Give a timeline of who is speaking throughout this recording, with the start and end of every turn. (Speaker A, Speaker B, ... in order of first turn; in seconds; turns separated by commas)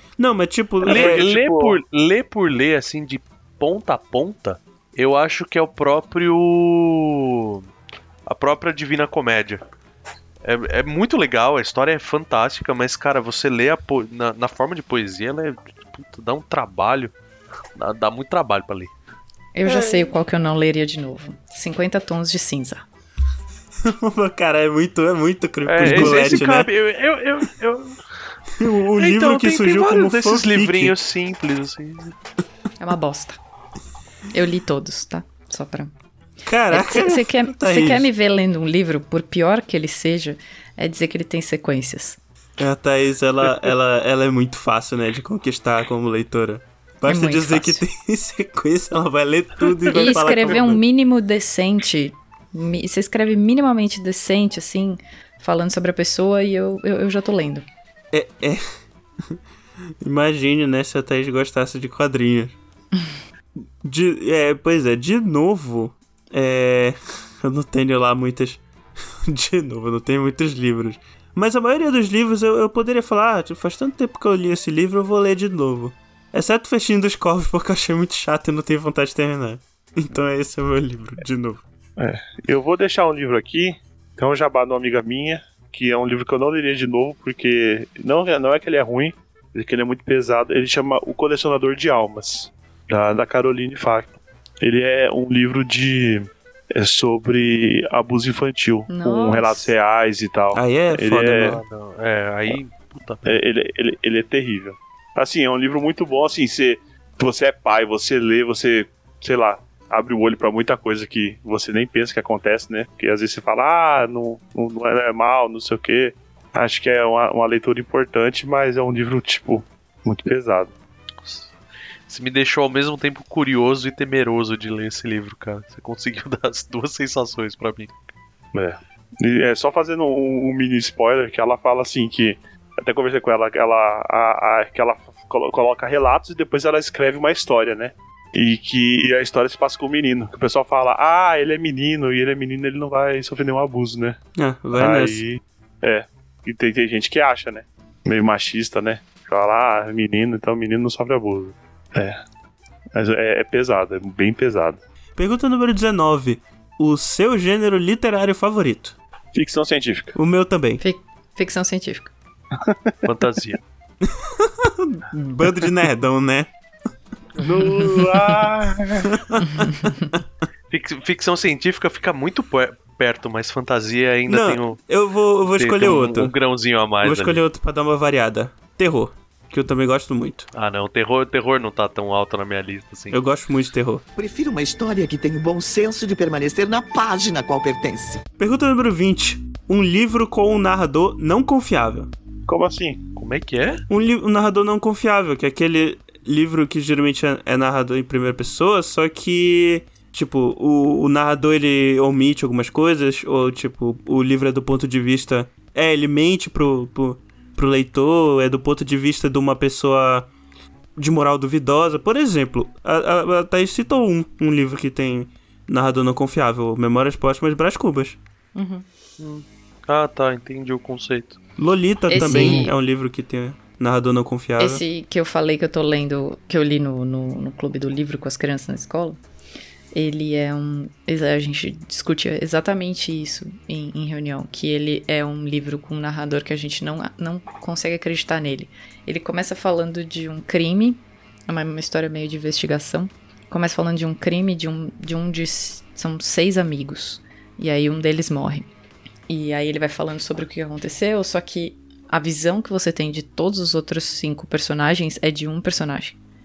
Speaker A: 0.2-1.2, Speaker B: 0.8-1.8, Speaker C: 0.8-7.6, Speaker C: 8.3-9.6, Speaker C: 10.4-17.1, Speaker C: 17.8-18.9, Speaker D: 19.6-22.9, Speaker A: 19.6-20.1, Speaker A: 23.9-26.7, Speaker C: 25.6-28.0, Speaker D: 25.9-26.3, Speaker A: 28.6-30.9, Speaker C: 29.0-32.1, Speaker D: 32.8-33.4, Speaker D: 34.3-35.9, Speaker A: 36.5-38.1, Speaker D: 36.7-42.2, Speaker A: 42.6-50.8, Speaker D: 47.0-47.8, Speaker D: 49.9-57.6, Speaker A: 58.1-58.6, Speaker A: 60.0-62.5, Speaker A: 63.8-68.6, Speaker A: 69.3-81.6, Speaker B: 82.0-101.6, Speaker D: 98.9-99.7, Speaker A: 100.5-101.6, Speaker C: 101.5-103.4, Speaker B: 103.3-120.7, Speaker C: 121.2-121.5, Speaker C: 122.1-128.0, Speaker B: 128.5-144.2, Speaker A: 144.3-145.2, Speaker B: 144.7-152.2, Speaker B: 152.9-154.8, Speaker A: 155.2-158.9, Speaker B: 159.3-160.2, Speaker A: 160.1-160.8, Speaker D: 160.8-162.1, Speaker B: 162.6-162.9, Speaker C: 163.0-163.6, Speaker A: 164.1-166.5, Speaker B: 167.4-169.2, Speaker A: 169.1-169.9, Speaker D: 169.4-170.1, Speaker C: 170.7-174.8, Speaker A: 174.3-176.3, Speaker C: 175.5-177.4, Speaker A: 177.0-180.5, Speaker C: 180.5-183.2, Speaker A: 183.1-184.0, Speaker E: 184.2-188.2, Speaker A: 188.4-192.1, Speaker B: 192.5-193.0, Speaker C: 193.2-193.8, Speaker A: 193.9-210.3, Speaker A: 211.0-218.2, Speaker D: 218.6-218.8, Speaker C: 219.2-221.4, Speaker A: 221.6-224.8, Speaker D: 222.1-222.7, Speaker B: 222.3-222.6, Speaker D: 224.6-229.2, Speaker D: 229.9-248.7, Speaker D: 249.3-256.2